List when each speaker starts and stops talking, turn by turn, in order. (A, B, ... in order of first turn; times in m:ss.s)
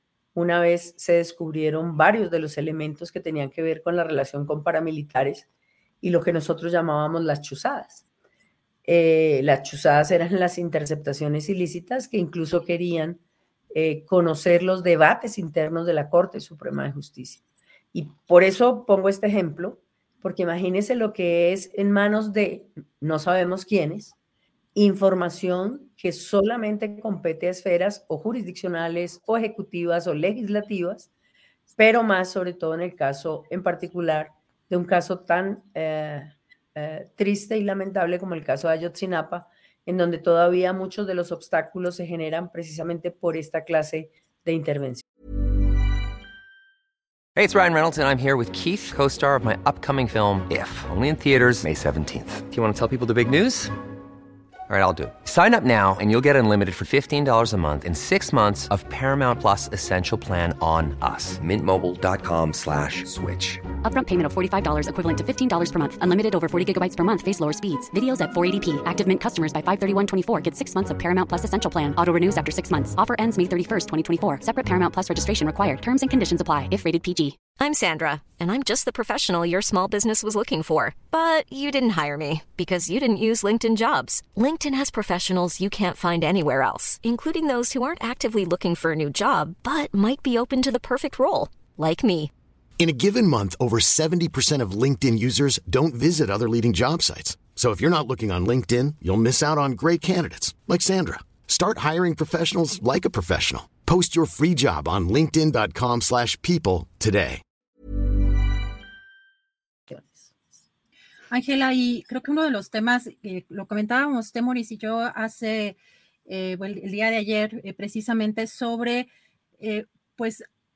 0:00.3-0:05.4 A
0:06.0-0:08.0 A
0:08.8-0:13.2 A
0:13.7-0:17.4 A
0:17.9-0:24.2 A
0:24.7-0:31.1 A
0:31.8-0:45.0 A
0:47.4-0:53.7 B
0:54.7-1:03.6 B
1:03.8-1:17.4 C
1:17.5-1:32.3 D
1:32.8-1:47.4 E
1:49.9-1:50.3 A
1:51.3-2:00.4 F